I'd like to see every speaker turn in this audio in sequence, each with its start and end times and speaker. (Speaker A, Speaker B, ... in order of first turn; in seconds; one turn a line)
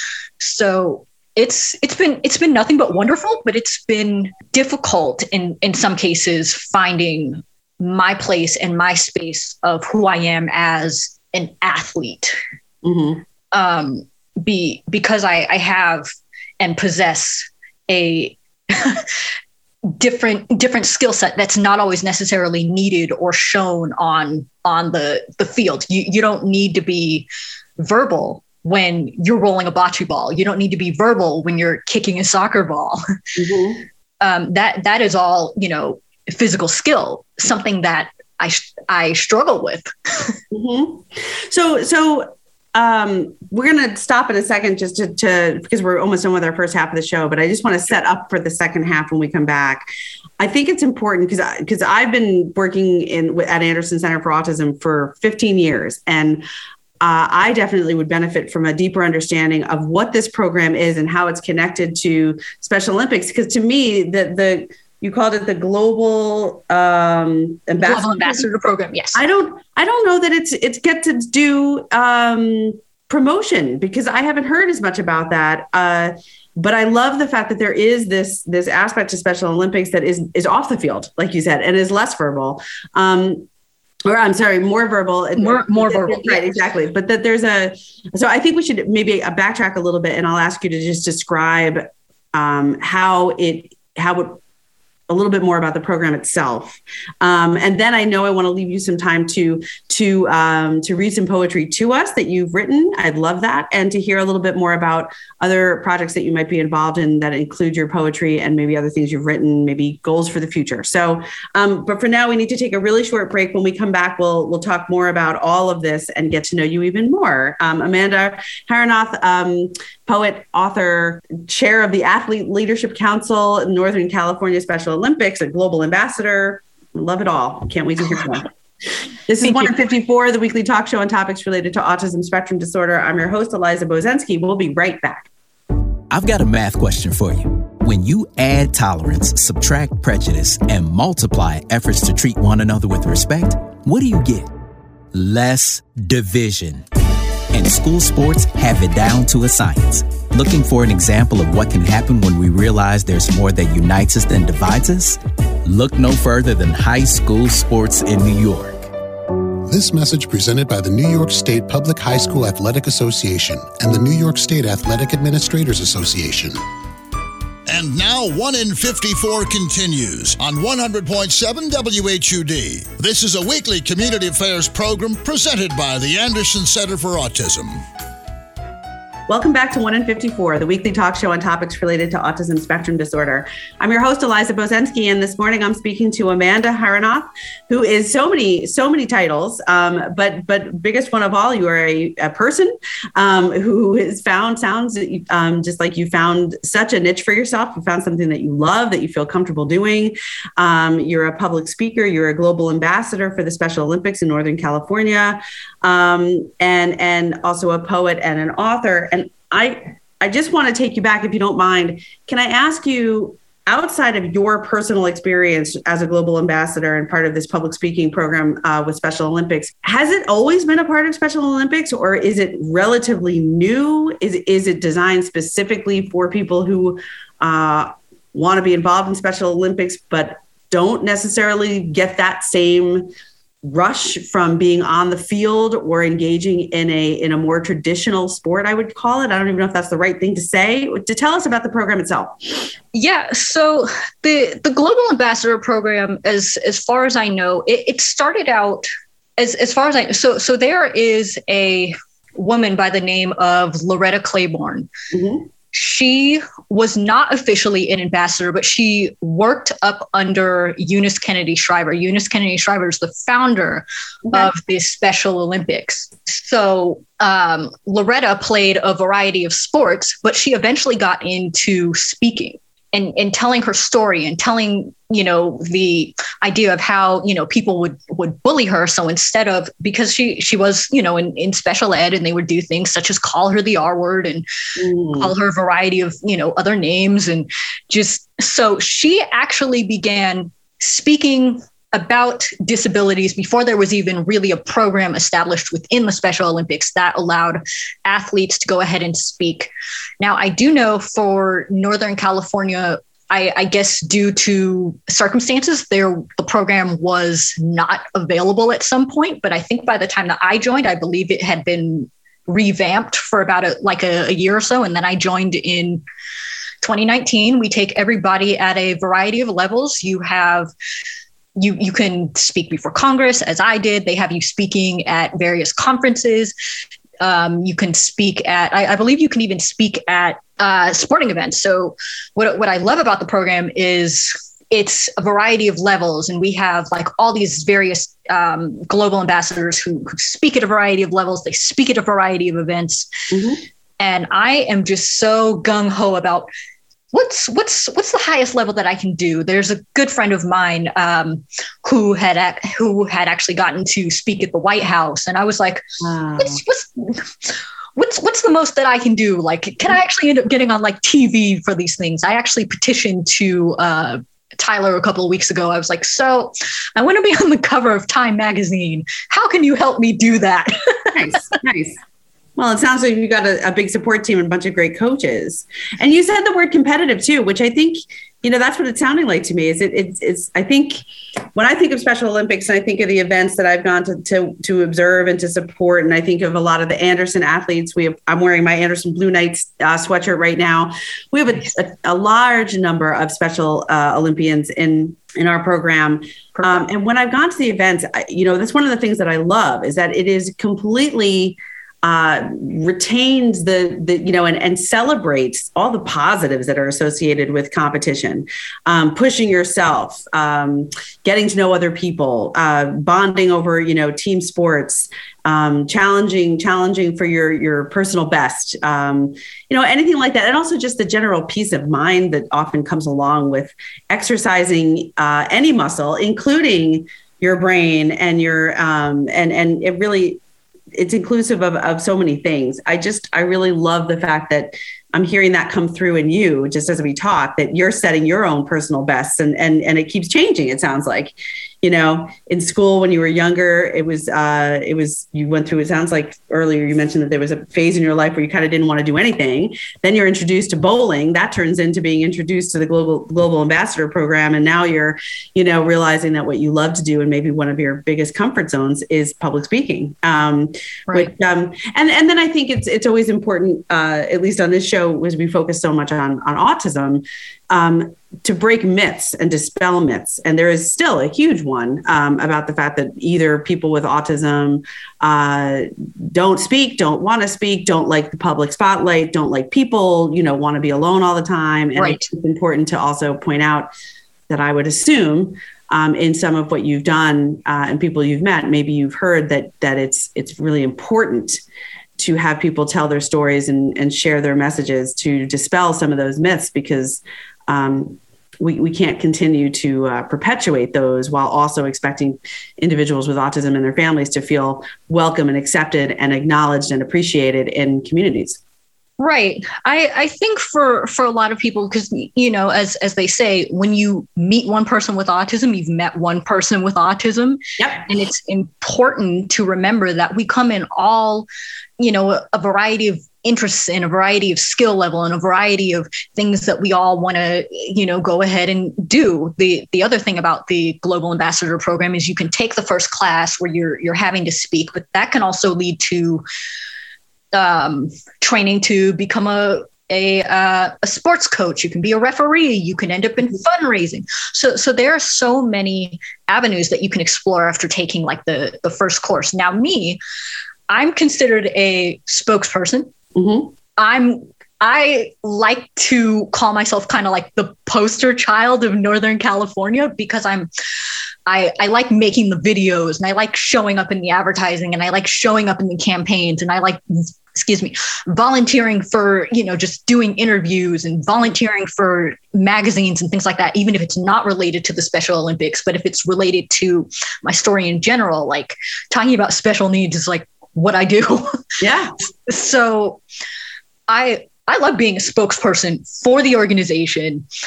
Speaker A: 0.4-12.4
Speaker B: 12.8-13.2
Speaker A: 13.5-19.2
Speaker A: 19.9-27.3
Speaker A: 27.8-33.0
Speaker B: 33.4-33.8
Speaker A: 34.2-40.4
Speaker B: 40.5-49.9
Speaker B: 50.4-56.4
Speaker B: 57.0-68.5
Speaker A: 67.8-69.2
Speaker B: 69.2-83.5
Speaker B: 84.1-94.4
Speaker A: 85.4-86.5
Speaker B: 95.1-128.5
Speaker B: 129.3-135.3
Speaker A: 129.4-129.7
Speaker C: 136.1-144.5
Speaker C: 145.1-146.8
Speaker C: 147.5-158.9
Speaker D: 159.7-166.6
Speaker E: 167.7-177.8
Speaker B: 179.3-233.1
Speaker B: 233.6-242.4
Speaker A: 242.9-254.9
Speaker B: 255.1-255.5
Speaker A: 255.7-284.4
Speaker B: 264.2-264.5
Speaker B: 284.8-285.3
Speaker A: 285.2-299.7
Speaker A: 300.2-316.0
Speaker A: 316.8-320.7
Speaker A: 321.6-326.5
Speaker A: 327.2-343.1
Speaker B: 343.3-343.6
Speaker A: 344.0-346.5
Speaker A: 347.1-355.8
Speaker B: 356.0-356.6
Speaker A: 356.4-371.4
Speaker B: 371.1-372.0
Speaker B: 372.6-381.0
Speaker B: 381.6-430.4
Speaker A: 396.6-396.9
Speaker B: 430.9-483.9
Speaker A: 482.0-482.3
Speaker B: 484.5-491.6
Speaker B: 492.2-508.6
Speaker A: 509.2-521.5
Speaker B: 517.8-518.0
Speaker A: 522.0-536.4
Speaker A: 537.5-550.2
Speaker A: 550.9-553.1
Speaker B: 553.4-553.7
Speaker A: 554.0-560.7
Speaker A: 561.5-581.6
Speaker B: 581.8-582.1
Speaker A: 582.5-583.2
Speaker A: 584.1-587.4